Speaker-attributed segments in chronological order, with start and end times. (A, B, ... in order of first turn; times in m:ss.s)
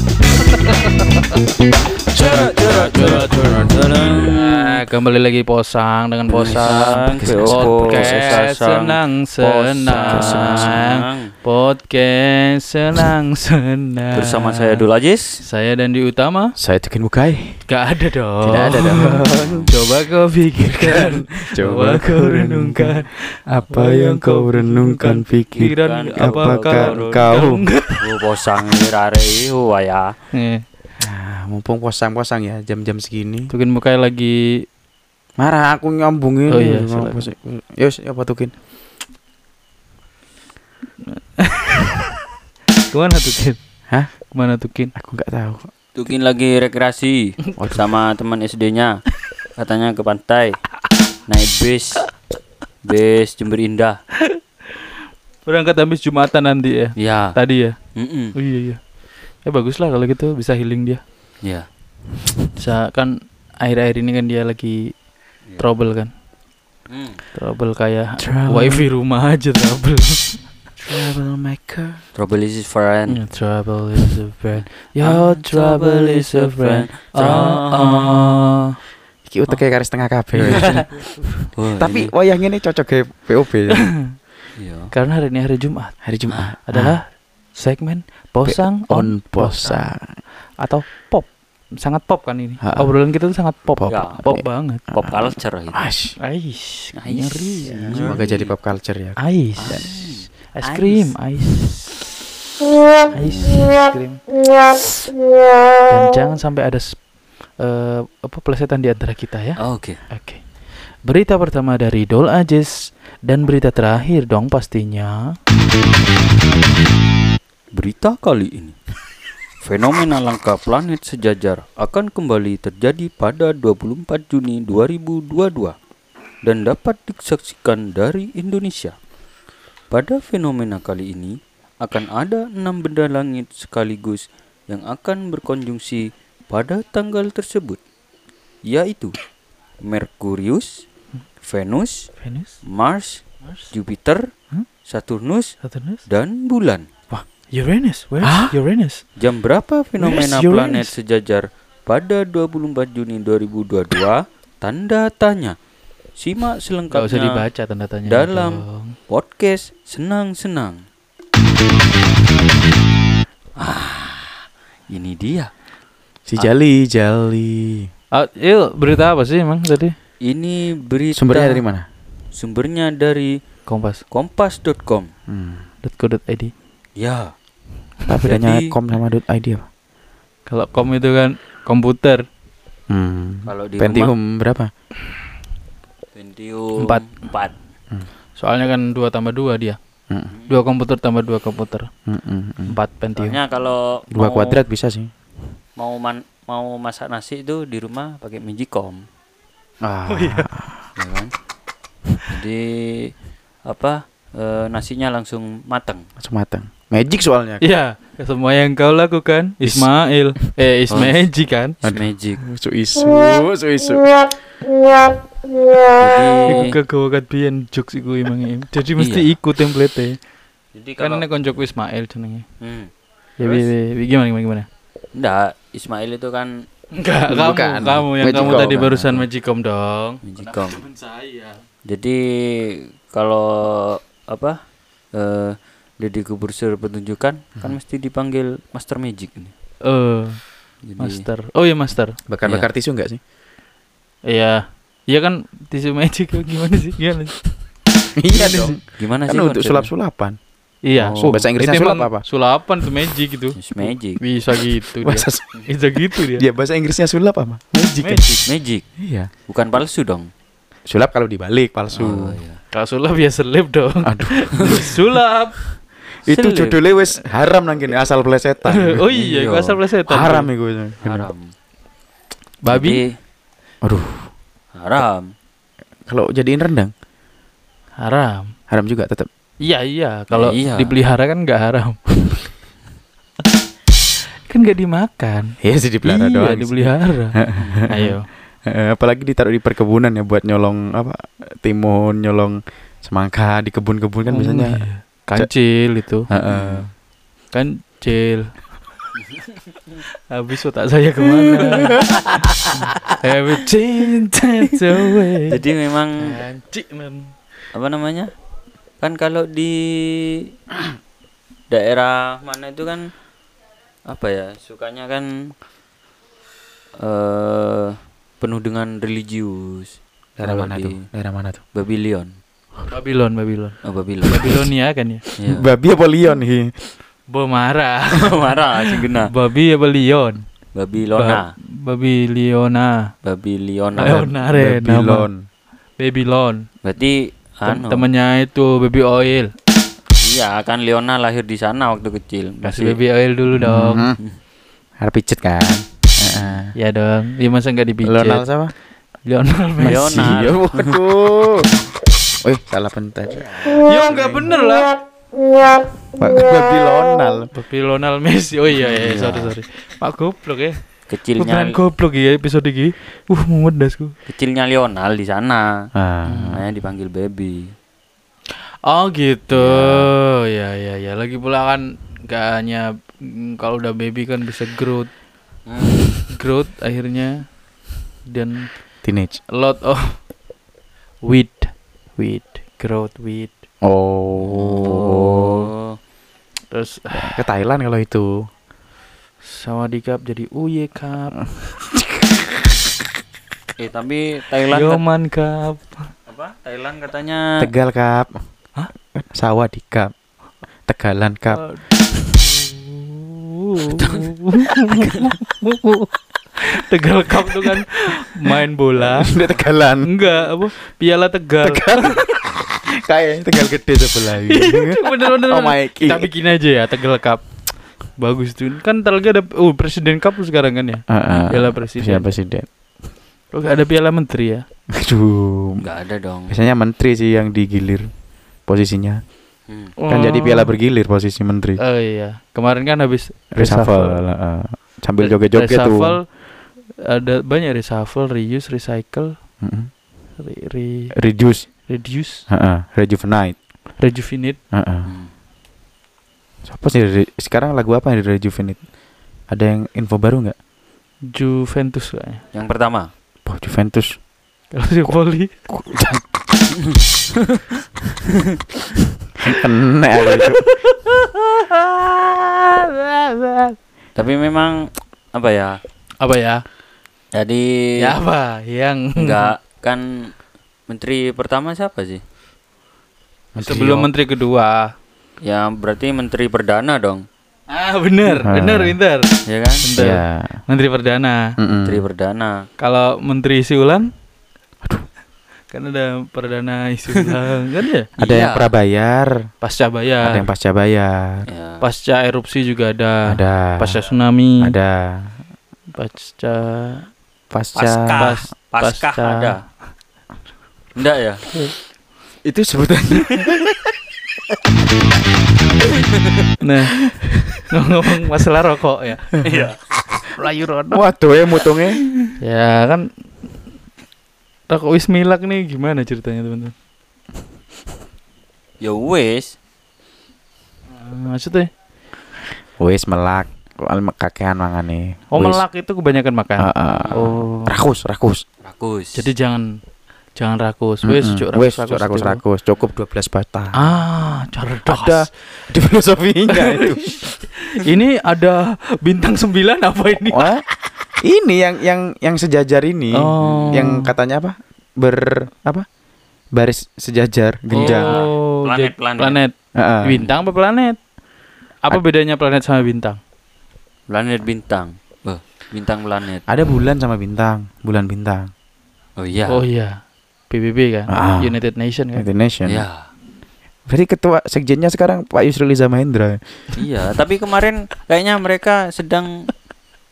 0:00.6-0:01.0 A
0:02.1-0:03.8 B
0:02.2-0:04.8 C
0:02.9-0:14.8 A
0:06.3-0:11.3 C
0:07.2-0:08.4 B
0:09.9-0:10.8 B
0:14.1-0:15.4 C
0:15.4-0:16.5 A
0:16.6-0:17.6 B
0:17.7-0:28.0 A
0:18.4-0:19.7 B
0:19.4-0:19.7 C
0:20.9-0:27.6 B
0:25.6-0:27.3 C
0:28.0-0:30.1 C
0:30.3-0:30.6 A
0:31.0-0:33.5 B
0:33.5-0:34.6 A
0:35.4-0:38.5 B
0:36.5-0:37.3 A
0:41.4-0:42.0 A
0:42.9-0:44.9 A
0:44.9-0:45.7 B
0:45.9-0:49.0 C
0:47.6-0:47.9 B
0:49.6-0:50.6 C
0:51.3-0:52.1 C
0:52.8-0:54.0 C
0:55.4-0:57.8 A
0:57.0-0:57.3 C
0:57.9-0:58.3 C
0:58.3-0:58.8 A
0:59.4-1:01.0 A
1:01.4-1:01.7 C
1:02.6-1:05.0 A
1:05.6-1:06.1 A
1:06.9-1:07.2 C
1:07.3-1:10.4 A
1:08.2-1:08.8 B
1:10.8-1:12.0 B
1:12.1-1:13.2 C
1:13.1-1:18.6 A
1:15.0-1:18.3 C
1:19.2-1:20.9 B
1:20.4-1:21.3 A
1:20.5-1:20.8 C
1:21.5-1:22.1 C
1:21.8-1:23.9 B
1:24.6-1:24.9 C
1:24.9-1:26.0 A
1:26.0-1:27.0 B
1:26.7-1:29.9 A
1:28.4-1:30.2 B
1:30.6-1:34.8 A
1:32.6-1:32.9 B
1:33.8-1:34.4 B
1:33.9-1:34.2 C
1:34.9-1:35.9 C
1:35.7-1:36.2 B
1:36.2-1:38.1 A
1:36.9-1:38.5 C
1:38.0-1:39.8 B
1:39.2-1:41.9 A
1:39.6-1:41.6 C
1:43.1-1:43.6 C
1:43.1-1:44.2 A
1:45.9-1:55.2 A
1:49.6-1:50.0 C
1:57.7-1:58.8 C
1:59.6-2:05.7 C
2:06.4-2:09.0 C
2:09.9-2:17.8 C
2:18.6-2:19.2 C
2:19.8-2:20.7 C
2:21.4-2:22.1 C
2:22.2-2:22.5 A
2:22.6-2:24.3 C
2:24.8-2:25.6 C
2:25.6-2:26.0 A
2:26.1-2:26.9 C
2:27.1-2:29.0 A
2:28.2-2:28.5 B
2:29.2-2:35.6 C
2:30.0-2:30.9 A
2:36.2-2:37.4 C
2:36.9-2:39.0 A
2:38.0-2:40.8 C
2:43.6-2:45.5 C
2:46.3-2:47.9 B
2:48.1-2:49.9 A
2:50.2-2:51.6 C
2:51.1-2:51.8 B
2:52.4-2:53.4 C
2:53.7-2:54.0 A
2:54.1-2:55.1 C
2:55.3-2:55.6 B
2:55.8-2:56.5 A
2:57.0-2:57.3 C
2:58.1-2:59.6 B
2:58.2-2:58.7 C
3:00.5-3:02.2 A
3:02.9-3:04.7 B
3:03.5-3:04.1 C
3:06.1-3:07.5 C
3:06.8-3:07.0 A
3:08.4-3:09.8 A
3:10.3-3:10.6 C
3:10.5-3:11.9 A
3:12.1-3:12.7 B
3:12.7-3:13.4 A
3:13.2-3:14.6 C
3:14.1-3:15.1 B
3:15.8-3:19.0 C
3:19.8-3:20.8 B
3:20.1-3:20.5 A
3:21.0-3:21.3 C
3:22.2-3:26.0 C
3:26.2-3:27.6 B
3:27.6-3:31.8 A
3:29.6-3:29.9 B
3:30.9-3:31.2 C
3:31.8-3:34.1 B
3:31.8-3:32.4 C
3:36.0-3:36.7 C
3:36.4-3:40.2 A
3:39.0-3:39.3 C
3:40.7-3:41.2 C
3:41.0-3:42.4 A
3:42.6-3:42.9 C
3:43.4-3:44.7 A
3:43.4-3:43.7 C
3:45.1-3:46.6 C
3:46.9-3:51.6 A
3:47.3-3:48.9 B
3:48.3-3:49.2 C
3:50.2-3:50.8 C
3:51.8-3:54.6 C
3:55.1-3:59.5 C
3:59.8-4:02.2 A
4:00.8-4:01.2 C
4:02.3-4:03.2 B
4:02.4-4:02.7 C
4:04.3-4:07.4 A
4:08.2-4:10.4 B
4:08.3-4:08.7 A
4:09.0-4:09.9 C
4:10.8-4:13.6 A
4:10.9-4:11.4 C
4:11.2-4:12.2 B
4:13.6-4:14.2 C
4:14.2-4:16.4 A
4:15.0-4:15.4 B
4:16.1-4:18.3 B
4:18.0-4:18.5 A
4:18.4-4:18.8 C
4:19.0-4:19.3 B
4:19.5-4:20.3 C
4:20.9-4:22.4 B
4:21.9-4:22.6 C
4:22.7-4:25.6 A
4:24.0-4:24.8 B
4:26.1-4:29.0 B
4:26.3-4:26.8 C
4:28.7-4:30.5 A
4:29.1-4:29.7 C
4:30.1-4:31.3 B
4:31.0-4:31.5 C
4:32.6-4:33.0 A
4:32.7-4:33.1 C
4:33.8-4:34.3 B
4:34.7-4:35.3 C
4:36.1-4:36.9 B
4:38.0-4:38.5 A
4:38.7-4:39.3 B
4:39.6-4:42.5 A
4:40.3-4:41.0 C
4:44.5-4:47.4 A
4:45.6-4:54.8 B
4:47.5-4:47.9 C
4:47.9-4:48.3 A
4:54.3-4:56.3 A
4:56.3-4:56.9 B
4:56.4-4:56.8 C
4:57.5-4:58.7 A
5:00.3-5:05.6 A
5:05.5-5:06.4 C
5:06.2-5:07.3 A
5:07.7-5:08.3 C
5:09.0-5:10.5 C
5:11.7-5:13.1 C
5:14.1-5:15.5 C
5:17.0-5:21.1 C
5:20.4-5:21.6 B
5:21.7-5:22.4 C
5:22.9-5:25.2 A
5:23.8-5:24.6 C
5:25.4-5:25.6 C
5:25.4-5:26.9 B
5:27.3-5:30.5 A
5:28.1-5:29.3 C
5:30.7-5:31.5 C
5:31.1-5:33.1 A
5:33.2-5:34.3 C
5:34.0-5:35.3 A
5:34.5-5:35.4 B
5:36.0-5:36.7 A
5:36.8-5:38.0 C
5:37.6-5:39.5 A
5:40.2-5:43.0 C
5:42.6-5:44.1 A
5:43.6-5:44.2 B
5:45.0-5:46.7 B
5:46.3-5:46.6 C
5:46.8-5:48.4 A
5:48.0-5:48.7 B
5:49.2-5:50.3 A
5:49.8-5:53.5 B
5:49.8-5:51.0 C
5:53.4-5:54.4 C
5:53.8-5:55.0 A
5:56.2-5:57.5 B
5:57.5-6:04.1 A
5:58.9-5:59.6 C
6:01.1-6:01.8 C
6:04.3-6:05.9 C
6:05.9-6:06.6 B
6:06.2-6:06.6 A
6:06.5-6:07.7 C
6:08.9-6:15.1 A
6:09.5-6:10.1 C
6:15.6-6:16.2 C
6:16.3-6:17.6 A
6:18.2-6:18.9 A
6:19.0-6:19.4 B
6:19.5-6:20.3 A
6:21.2-6:23.5 A
6:23.8-6:25.7 B
6:24.4-6:26.0 C
6:26.7-6:27.4 A
6:27.1-6:28.4 B
6:29.4-6:31.5 A
6:33.8-6:35.0 C
6:34.7-6:36.1 A
6:36.3-6:37.7 C
6:37.6-6:38.4 B
6:39.1-6:40.1 B
6:40.9-6:41.6 B
6:41.5-6:41.8 A
6:42.4-6:49.3 A
6:44.0-6:44.3 C
6:45.0-6:45.2 C
6:49.0-6:50.1 B
6:50.0-6:52.2 A
6:51.6-6:52.4 B
6:53.0-6:56.3 B
6:54.5-7:02.3 A
7:01.1-7:02.7 B
7:03.5-7:04.6 A
7:04.9-7:05.8 B
7:05.8-7:06.5 C
7:06.5-7:08.1 B
7:08.6-7:09.2 B
7:09.7-7:09.9 C
7:10.0-7:10.7 A
7:10.1-7:11.8 B
7:11.8-7:14.2 A
7:13.5-7:16.2 B
7:15.2-7:19.4 A
7:19.6-7:19.9 B
7:20.4-7:21.1 A
7:21.1-7:21.7 B
7:21.8-7:22.4 A
7:22.5-7:23.6 B
7:24.0-7:24.6 A
7:24.7-7:25.1 B
7:25.0-7:25.3 C
7:26.6-7:28.9 B
7:29.5-7:30.6 B
7:31.3-7:32.4 A
7:32.5-7:33.1 C
7:33.4-7:34.2 B
7:34.7-7:35.5 A
7:35.7-7:36.7 B
7:39.5-7:40.6 B
7:40.4-7:43.8 A
7:44.2-7:45.8 C
7:46.2-7:46.6 A
7:47.3-7:47.9 C
7:48.0-7:49.5 A
7:49.2-7:50.3 C
7:50.9-7:52.2 C
7:53.5-7:54.0 B
7:53.6-7:54.9 A
7:55.4-7:57.2 C
7:57.7-8:01.4 A
7:58.4-7:58.9 B
7:59.4-7:59.8 C
8:00.0-8:00.6 B
8:01.6-8:02.0 B
8:01.8-8:02.6 C
8:02.8-8:04.1 A
8:05.7-8:08.1 A
8:08.2-8:08.7 C
8:08.2-8:09.5 B
8:09.6-8:10.5 A
8:10.2-8:11.4 B
8:11.5-8:11.8 C
8:11.8-8:14.8 A
8:13.3-8:14.0 B
8:14.6-8:15.3 B
8:16.0-8:17.1 A
8:17.5-8:18.2 B
8:17.8-8:19.6 C
8:18.2-8:19.6 A
8:21.0-8:21.4 C
8:22.4-8:23.7 B
8:26.6-8:27.0 A
8:27.7-8:29.4 A
8:29.4-8:29.8 C
8:30.4-8:31.0 A
8:30.9-8:32.0 B
8:32.4-8:33.2 A
8:34.7-8:36.7 A
8:38.8-8:39.5 C
8:40.9-8:41.7 A
8:42.8-8:45.6 B
8:45.3-8:47.8 A
8:46.6-8:48.4 B
8:47.0-8:47.3 C
8:48.6-8:49.3 C
8:49.1-8:49.7 A
8:50.4-8:52.4 A
8:51.0-8:53.8 B
8:53.8-8:55.3 A
8:54.8-8:57.1 B
8:56.5-9:00.5 A
9:00.3-9:05.8 B
9:03.1-9:04.1 A
9:03.4-9:03.8 C
9:06.5-9:08.2 B
9:07.7-9:11.0 A
9:07.8-9:09.4 C
9:09.7-9:10.2 B
9:11.8-9:13.2 A
9:14.1-9:16.5 C
9:16.5-9:18.5 B
9:19.2-9:19.6 C
9:19.5-9:22.2 A
9:21.1-9:21.6 B
9:22.1-9:22.8 B
9:22.6-9:23.1 C
9:23.9-9:26.8 B
9:26.8-9:29.5 C